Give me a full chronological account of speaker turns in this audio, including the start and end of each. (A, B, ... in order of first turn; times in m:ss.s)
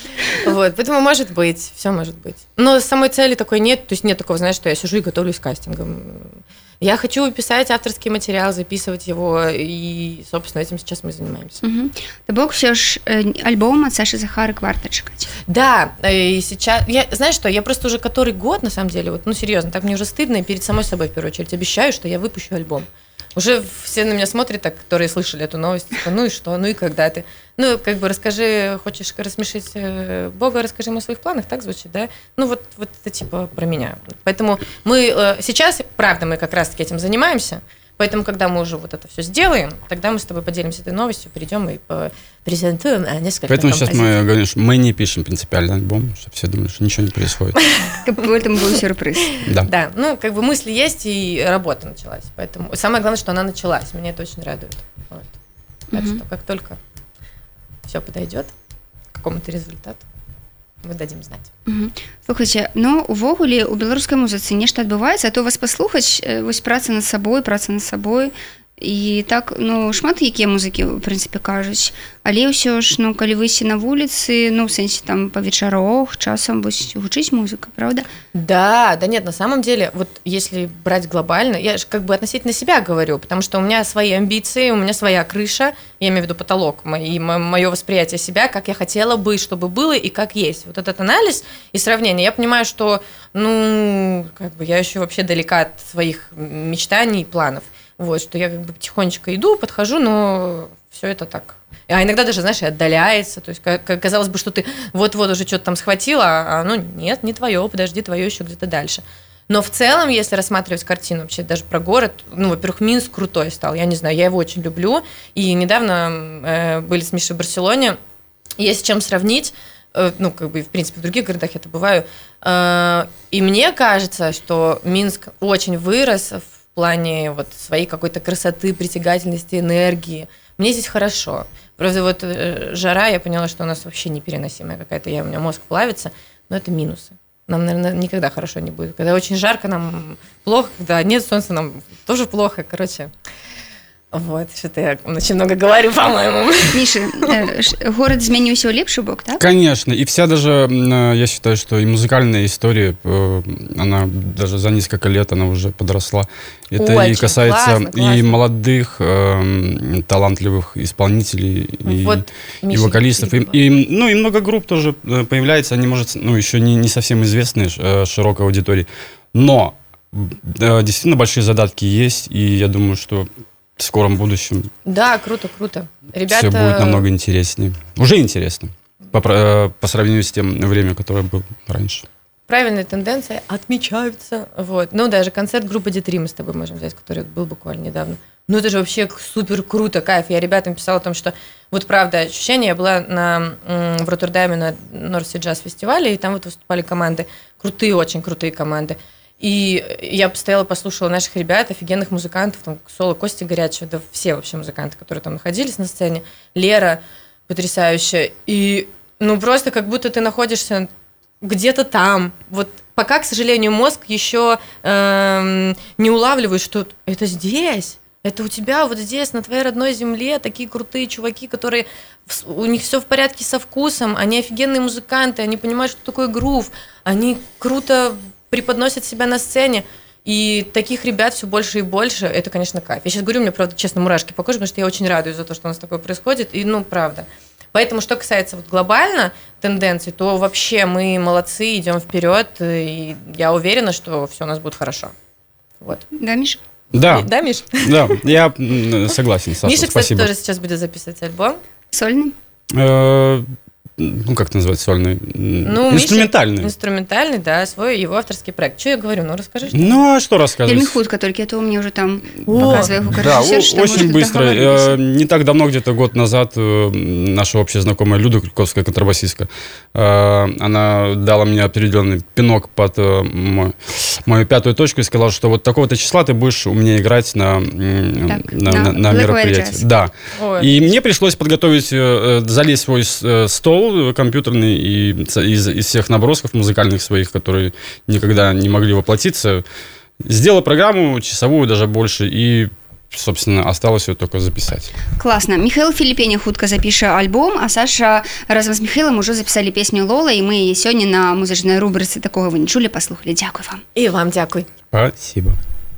0:00.2-0:11.6 A
0:11.6-0:15.3 B
0:15.5-0:44.1 A
0:43.5-0:47.6 C
0:47.9-0:49.4 B
0:49.4-0:49.7 C
0:49.6-0:55.3 A
0:55.9-0:56.2 B
0:55.9-0:56.8 A
0:57.9-0:58.5 A
0:59.1-1:00.0 A
1:00.8-1:01.5 A
1:01.7-1:18.1 B
1:18.3-1:58.0 A
1:58.6-2:23.1 A
2:24.1-2:27.3 A
2:26.7-2:29.4 B
2:29.4-2:54.7 C
2:36.8-2:38.4 A
2:41.9-2:43.5 A
2:54.8-2:57.0 A
2:56.3-3:02.0 C
3:02.5-3:30.9 A
3:31.4-4:05.1 A
4:05.8-4:06.0 A
4:06.2-4:06.6 B
4:06.9-4:07.3 C
4:07.1-4:08.2 A
4:07.8-4:10.3 C
4:09.6-4:11.6 A
4:11.9-4:12.3 B
4:12.7-4:13.4 C
4:14.0-4:16.7 C
4:15.6-4:20.0 A
4:19.7-4:21.0 C
4:20.6-4:25.0 B
4:22.4-4:22.9 A
4:22.6-4:49.6 C
4:38.3-4:39.8 B
4:40.4-4:40.9 A
4:50.2-4:54.9 C
4:55.2-5:03.8 B
5:04.0-5:04.7 A
5:04.9-5:05.6 C